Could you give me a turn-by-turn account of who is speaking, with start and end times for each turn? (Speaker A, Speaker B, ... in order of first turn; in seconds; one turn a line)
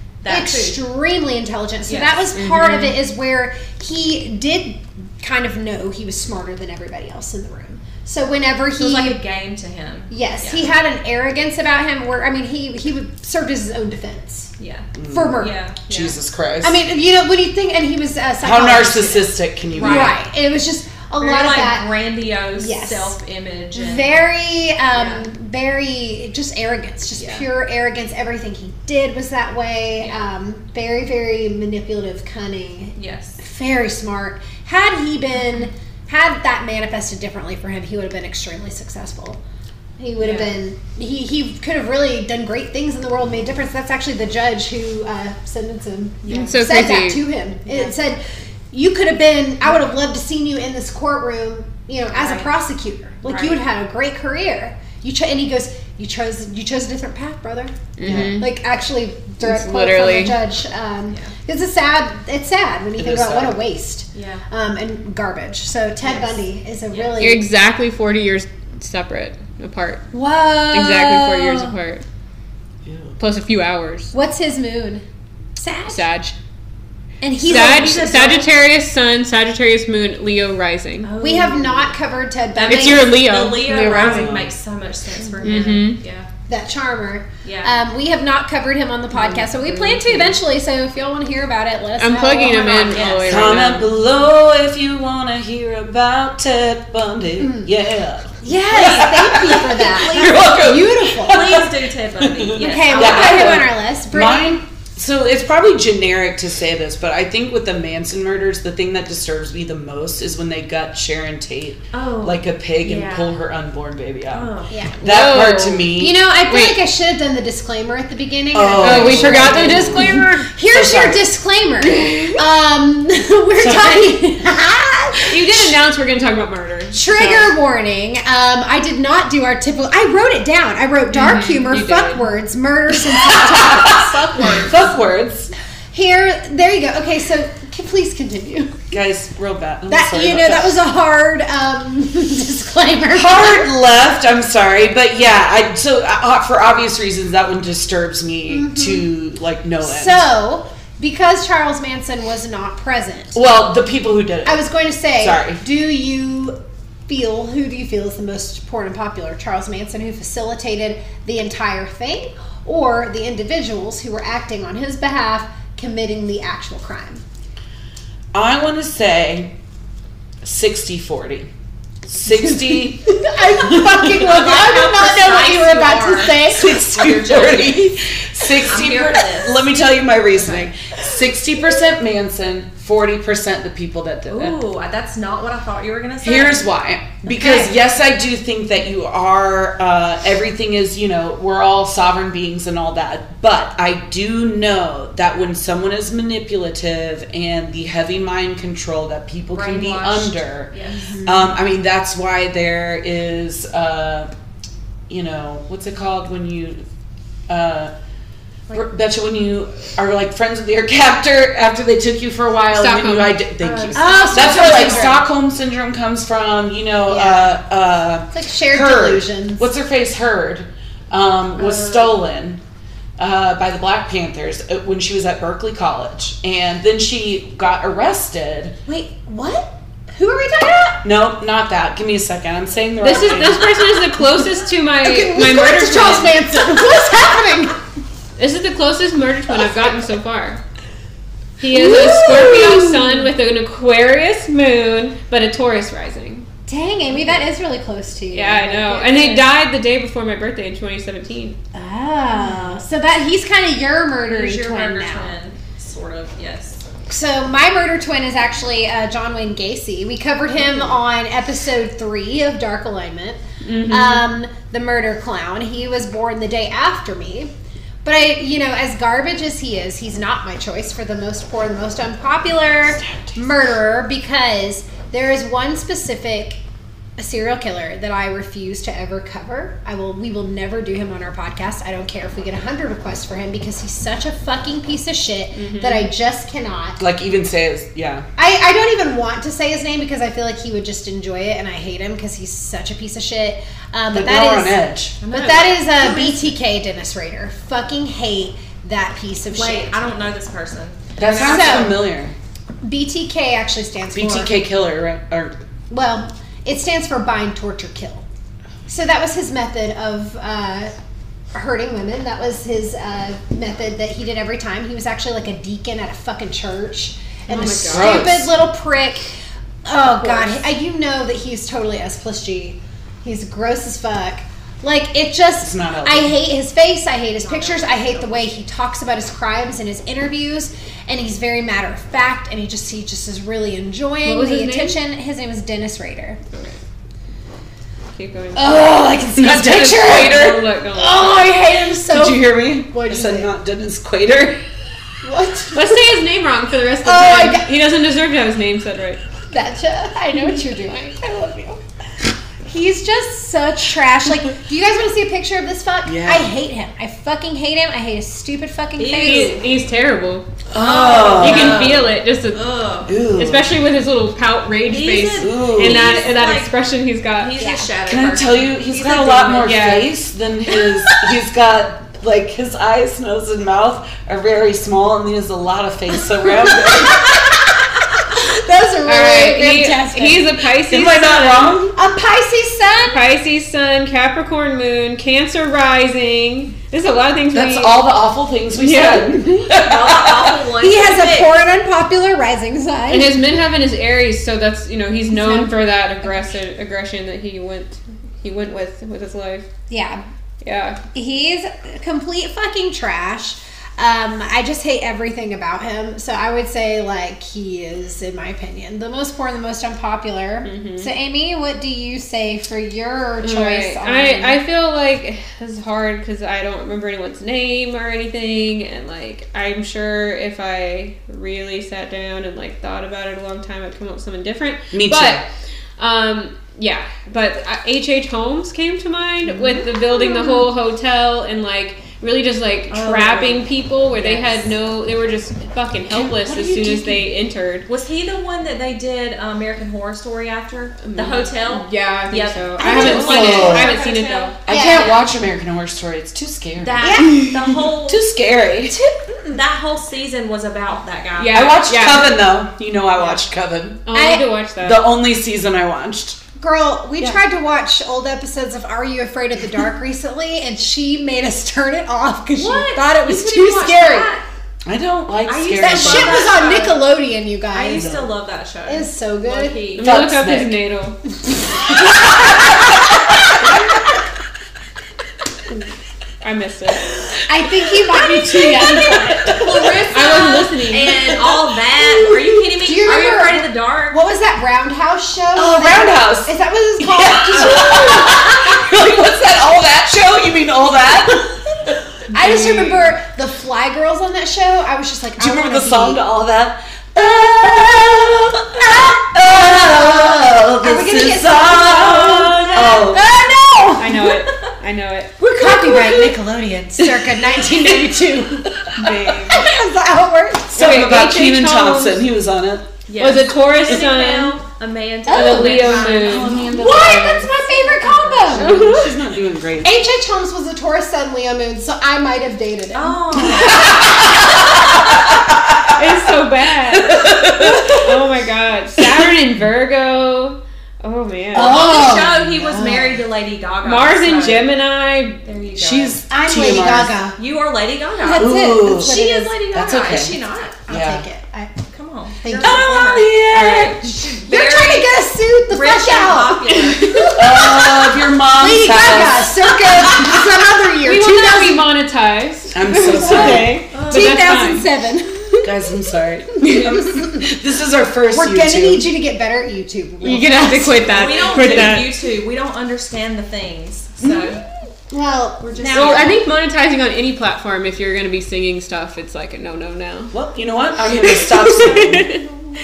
Speaker A: 0.2-0.8
Speaker B: 0.3-9.2
Speaker A: 1.9-2.3
Speaker C: 2.3-3.0
Speaker A: 8.8-10.7
Speaker B: 10.1-14.5
Speaker A: 14.6-16.1
Speaker D: 14.9-16.8
Speaker B: 15.1-15.5
Speaker B: 16.6-21.9
Speaker D: 18.4-20.1
Speaker A: 19.7-20.2
Speaker A: 21.2-24.2
Speaker B: 22.5-23.1
Speaker B: 23.7-39.4
Speaker A: 24.9-25.2
Speaker A: 27.2-27.4
Speaker A: 30.0-30.2
Speaker A: 33.0-33.4
Speaker B: 40.0-67.5
Speaker A: 40.2-40.5
Speaker A: 46.2-46.6
Speaker C: 46.3-47.2
Speaker A: 52.1-52.5
Speaker A: 53.2-53.6
Speaker C: 58.0-58.5
Speaker D: 58.0-58.4
Speaker C: 59.4-60.4
Speaker D: 63.0-63.6
Speaker A: 64.1-64.4
Speaker A: 66.0-66.4
Speaker A: 66.9-67.2
Speaker C: 67.2-70.0
Speaker B: 70.1-71.7
Speaker C: 70.7-72.0
Speaker D: 72.8-73.2
Speaker C: 73.2-74.1
Speaker B: 74.1-75.0
Speaker B: 75.6-76.0
Speaker C: 75.9-76.3
Speaker B: 77.2-78.4
Speaker A: 77.4-78.5
Speaker C: 77.4-81.1
Speaker A: 81.0-81.9
Speaker B: 81.2-83.1
Speaker A: 82.5-86.3
Speaker C: 82.6-84.3
Speaker D: 84.0-84.5
Speaker C: 85.4-86.0
Speaker B: 86.5-93.2
Speaker A: 87.4-87.7
Speaker C: 89.1-90.4
Speaker C: 92.0-93.9
Speaker A: 92.4-93.7
Speaker D: 93.2-116.2
Speaker B: 97.4-97.7
Speaker B: 98.4-101.6
Speaker A: 98.5-103.7
Speaker B: 102.6-104.6
Speaker A: 111.9-113.4
Speaker A: 114.3-114.7
Speaker B: 114.7-115.0
Speaker C: 115.0-115.9
Speaker B: 116.0-125.3
Speaker C: 116.5-116.8
Speaker D: 118.5-121.2
Speaker C: 118.8-120.5
Speaker C: 121.8-122.4
Speaker D: 123.6-124.1
Speaker C: 125.3-127.5
Speaker B: 126.9-134.7
Speaker C: 131.1-132.2
Speaker D: 133.3-135.5
Speaker A: 134.4-134.8
Speaker C: 134.4-134.7
Speaker B: 135.9-138.8
Speaker D: 138.9-140.8
Speaker B: 139.9-143.7
Speaker D: 143.1-150.3
Speaker B: 148.5-149.1
Speaker B: 149.8-153.4
Speaker D: 153.3-154.6
Speaker B: 154.4-167.2
Speaker D: 155.2-155.6
Speaker D: 168.3-169.5
Speaker D: 170.4-171.5
Speaker D: 172.1-173.1
Speaker B: 172.7-176.8
Speaker A: 174.1-179.8
Speaker D: 176.5-184.6
Speaker A: 180.3-180.7
Speaker A: 184.3-186.7
Speaker D: 186.2-200.7
Speaker A: 187.4-187.6
Speaker A: 199.5-201.0
Speaker B: 201.0-201.5
Speaker D: 201.2-204.3
Speaker D: 205.1-206.8
Speaker D: 207.5-207.9
Speaker D: 208.7-222.6
Speaker C: 212.7-213.4
Speaker A: 213.6-215.2
Speaker B: 213.9-215.2
Speaker B: 217.1-217.6
Speaker B: 218.3-219.7
Speaker A: 221.6-222.2
Speaker D: 223.2-228.7
Speaker B: 228.8-231.0
Speaker D: 231.0-233.8
Speaker C: 233.0-236.5
Speaker B: 234.9-237.8
Speaker C: 238.4-240.6
Speaker C: 241.6-246.5
Speaker B: 241.7-243.2
Speaker D: 241.8-242.7
Speaker B: 246.7-249.5
Speaker C: 248.3-251.6
Speaker B: 251.7-255.4
Speaker A: 252.4-252.7
Speaker A: 254.3-256.8
Speaker B: 257.1-267.5
Speaker C: 263.6-264.2
Speaker B: 268.0-276.6
Speaker D: 273.0-273.4
Speaker B: 277.2-287.0
Speaker C: 285.6-286.1
Speaker D: 287.0-288.2
Speaker B: 288.4-300.0
Speaker D: 294.1-295.1
Speaker A: 295.2-296.5
Speaker A: 299.5-302.0
Speaker D: 301.2-302.3
Speaker B: 301.4-302.0
Speaker B: 302.8-304.5
Speaker D: 304.1-305.5
Speaker B: 305.9-308.2
Speaker B: 308.9-310.9
Speaker B: 311.5-319.3
Speaker C: 317.5-318.4
Speaker D: 317.9-318.5
Speaker B: 319.8-336.4
Speaker C: 320.1-320.6
Speaker D: 325.6-326.3
Speaker A: 327.4-328.6
Speaker C: 334.2-335.0
Speaker C: 336.5-336.8
Speaker C: 338.1-341.5
Speaker B: 338.6-340.1
Speaker D: 339.3-344.6
Speaker B: 341.0-343.5
Speaker B: 345.2-346.1
Speaker C: 345.7-349.2
Speaker B: 347.0-347.7
Speaker B: 349.5-351.8
Speaker B: 352.6-359.6
Speaker D: 356.0-356.5
Speaker A: 359.0-359.6
Speaker C: 359.1-360.5
Speaker D: 360.7-361.9
Speaker A: 360.7-363.1
Speaker C: 361.3-362.6
Speaker D: 363.1-363.7
Speaker C: 363.3-367.6
Speaker A: 364.9-366.7
Speaker D: 365.4-366.2
Speaker A: 367.3-369.7
Speaker B: 367.6-367.9
Speaker D: 368.1-377.3
Speaker C: 369.6-370.1
Speaker B: 378.3-380.5
Speaker C: 379.1-381.9
Speaker D: 380.8-381.9
Speaker B: 381.9-383.2
Speaker C: 382.9-388.0
Speaker D: 387.5-390.6
Speaker C: 388.7-389.4
Speaker A: 389.7-391.6
Speaker B: 390.8-393.3
Speaker C: 393.1-399.7
Speaker B: 395.3-396.4
Speaker B: 399.9-400.2
Speaker C: 400.6-401.0
Speaker B: 401.1-414.6
Speaker C: 410.6-411.1
Speaker C: 413.4-425.4
Speaker D: 424.9-425.4
Speaker C: 426.0-437.9
Speaker A: 429.5-430.5
Speaker A: 432.9-433.6
Speaker A: 434.2-434.5
Speaker D: 436.1-437.2
Speaker A: 437.9-445.2
Speaker C: 441.0-444.5
Speaker B: 442.8-443.9
Speaker D: 442.9-443.9
Speaker D: 444.6-448.9
Speaker B: 444.7-445.1
Speaker A: 446.8-448.2
Speaker B: 447.0-447.4
Speaker B: 448.9-449.6
Speaker A: 449.5-451.8
Speaker C: 451.4-452.4
Speaker D: 451.5-454.1
Speaker C: 454.1-455.0
Speaker B: 454.1-454.5
Speaker D: 454.8-456.4
Speaker B: 456.6-464.3
Speaker A: 462.6-464.4
Speaker D: 464.8-466.6
Speaker A: 465.4-467.0
Speaker B: 465.8-468.1
Speaker A: 467.7-470.1
Speaker D: 467.9-468.3
Speaker B: 468.9-469.9
Speaker C: 470.0-471.2
Speaker D: 470.0-470.8
Speaker D: 471.9-473.7
Speaker C: 476.4-477.1
Speaker B: 477.4-480.3
Speaker D: 478.2-479.9
Speaker A: 479.6-484.2
Speaker C: 480.0-481.4
Speaker B: 482.8-488.5
Speaker D: 485.6-492.0
Speaker B: 492.3-496.2
Speaker C: 492.4-493.1
Speaker D: 495.4-504.0
Speaker B: 499.5-504.0
Speaker C: 504.0-505.3
Speaker B: 505.4-510.9
Speaker D: 505.6-506.3
Speaker D: 508.7-509.1
Speaker C: 509.0-509.7
Speaker C: 510.7-512.2
Speaker D: 510.7-512.9
Speaker A: 513.1-516.8
Speaker C: 513.2-514.6
Speaker B: 515.3-516.1
Speaker C: 515.3-516.8
Speaker D: 516.0-520.0
Speaker B: 516.7-518.8
Speaker C: 518.5-519.1
Speaker B: 519.8-523.8
Speaker A: 522.9-524.0
Speaker D: 523.6-526.1
Speaker C: 525.9-531.9
Speaker D: 526.9-528.2
Speaker D: 529.0-529.3
Speaker D: 531.5-532.7
Speaker A: 531.5-534.7
Speaker B: 531.9-533.2
Speaker C: 533.8-535.4
Speaker A: 535.4-536.2
Speaker D: 535.8-537.1
Speaker B: 536.3-537.4
Speaker A: 537.4-540.8
Speaker B: 538.2-539.6
Speaker D: 538.3-539.1
Speaker D: 539.7-540.4
Speaker B: 540.9-541.8
Speaker D: 540.9-541.2
Speaker A: 541.9-545.1
Speaker B: 542.4-542.9
Speaker D: 542.6-544.0
Speaker B: 544.4-551.9
Speaker A: 545.7-547.3
Speaker D: 547.3-549.6
Speaker C: 551.0-554.9
Speaker D: 552.7-553.8
Speaker B: 553.0-555.7
Speaker A: 553.9-554.7
Speaker D: 555.6-559.0
Speaker B: 556.6-557.4
Speaker C: 556.6-557.0
Speaker B: 558.3-561.9
Speaker C: 560.2-562.1
Speaker A: 561.0-564.6
Speaker D: 564.2-564.5
Speaker B: 565.1-566.4
Speaker A: 565.6-566.4
Speaker C: 565.9-570.3
Speaker D: 570.3-572.4
Speaker C: 571.1-572.4